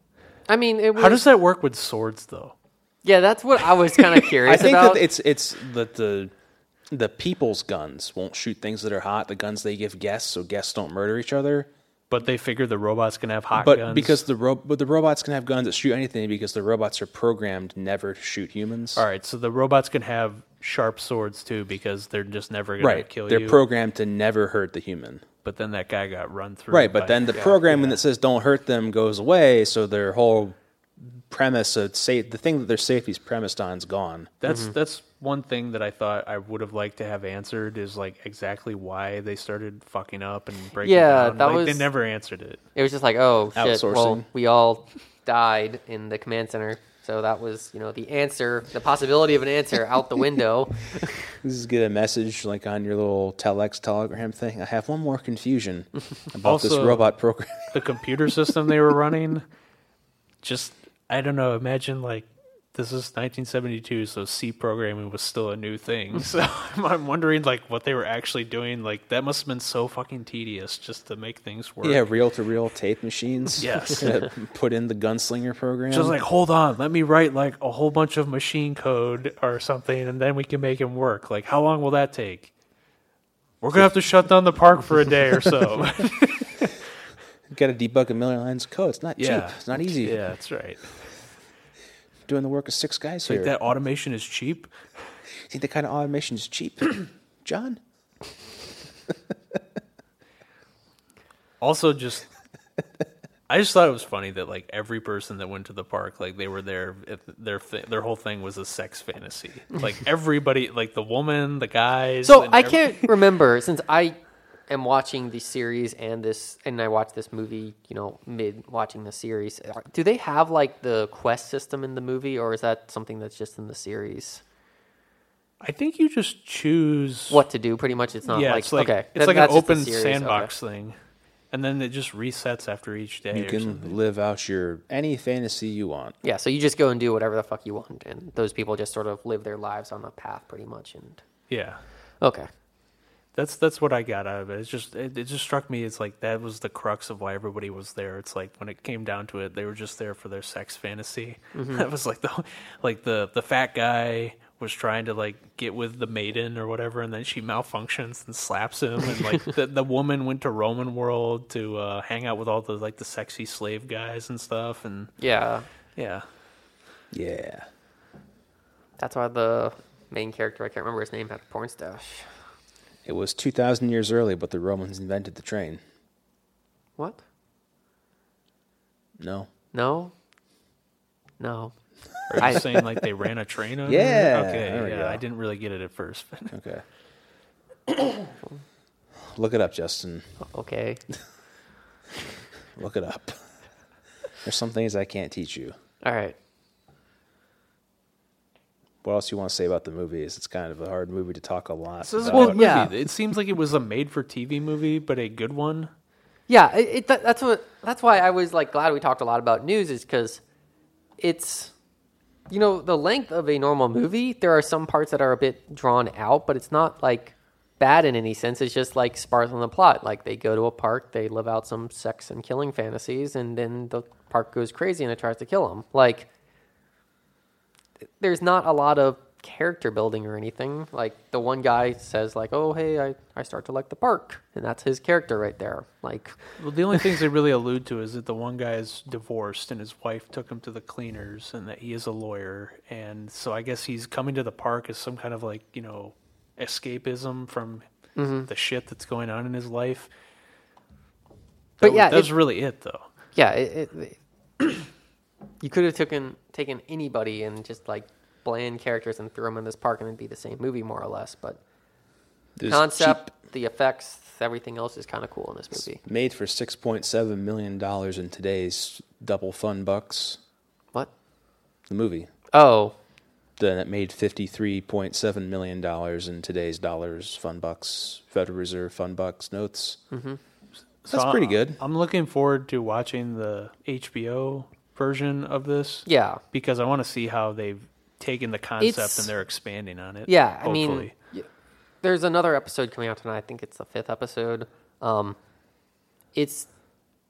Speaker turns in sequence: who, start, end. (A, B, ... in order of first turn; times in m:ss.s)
0:00.5-0:01.2 A
0:01.0-0:02.5 B
0:03.0-0:05.0 A
0:04.4-0:06.3 C
0:06.9-0:11.7 C
0:12.1-0:14.2 B
0:13.5-0:19.0 C
0:19.0-0:23.6 B
0:22.8-0:25.2 C
0:25.4-0:27.8 B
0:26.7-0:34.3 C
0:27.3-0:27.8 A
0:34.4-0:42.6 B
0:34.4-0:34.8 A
0:40.8-0:41.9 A
0:42.7-0:51.2 A
0:43.5-0:44.2 C
0:51.4-0:57.9 C
0:56.4-0:57.1 B
0:57.7-0:59.4 B
1:00.4-1:12.0 B
1:11.8-1:16.2 C
1:13.6-1:14.2 B
1:15.9-1:22.5 B
1:23.6-1:26.8 B
1:27.5-1:30.2 C
1:29.2-1:31.0 B
1:32.2-1:33.5 C
1:33.2-1:34.7 B
1:35.5-1:37.8 C
1:41.6-1:42.3 B
1:43.5-1:53.2 B
1:52.2-1:54.2 A
1:54.7-2:04.4 A
2:05.6-2:07.4 B
2:07.3-2:10.5 A
2:08.3-2:11.0 B
2:11.5-2:14.0 B
2:13.3-2:16.2 C
2:16.2-2:21.2 A
2:21.5-2:21.8 B
2:22.2-2:22.5 A
2:23.3-2:45.1 B
2:31.5-2:31.8 A
2:45.2-2:45.7 A
2:46.0-2:46.2 B
2:47.1-2:47.6 C
2:49.0-2:52.3 A
2:53.0-2:55.8 C
2:59.2-2:59.5 C
2:59.7-3:00.1 A
3:01.4-3:01.7 A
3:02.3-3:02.6 C
3:02.3-3:06.5 B
3:02.4-3:02.8 A
3:03.8-3:05.2 C
3:06.5-3:06.8 C
3:09.2-3:10.3 C
3:10.4-3:11.0 A
3:12.8-3:13.4 C
3:14.4-3:15.8 C
3:16.0-3:16.4 A
3:19.0-3:22.6 C
3:22.0-3:25.9 B
3:22.2-3:23.0 A
3:26.5-3:30.4 A
3:31.2-3:31.7 A
3:32.5-3:46.3 A
3:48.2-3:56.4 A
3:56.6-4:07.8 B
4:08.2-4:08.5 A
4:08.5-4:10.1 B
4:11.8-4:12.3 A
4:11.8-4:13.0 B
4:13.4-4:14.8 A
4:15.6-4:21.6 A
4:22.6-4:23.3 C
4:22.7-4:26.0 A
4:26.0-4:30.4 C
4:31.9-4:32.3 C
4:32.5-4:33.0 A
4:33.6-4:40.0 C
4:40.1-4:40.4 A
4:41.0-4:51.1 B
4:41.1-4:41.8 C
4:46.0-4:46.4 A
4:48.8-4:49.3 A
4:50.2-4:51.5 A
4:52.0-4:55.4 A
4:56.3-4:56.7 A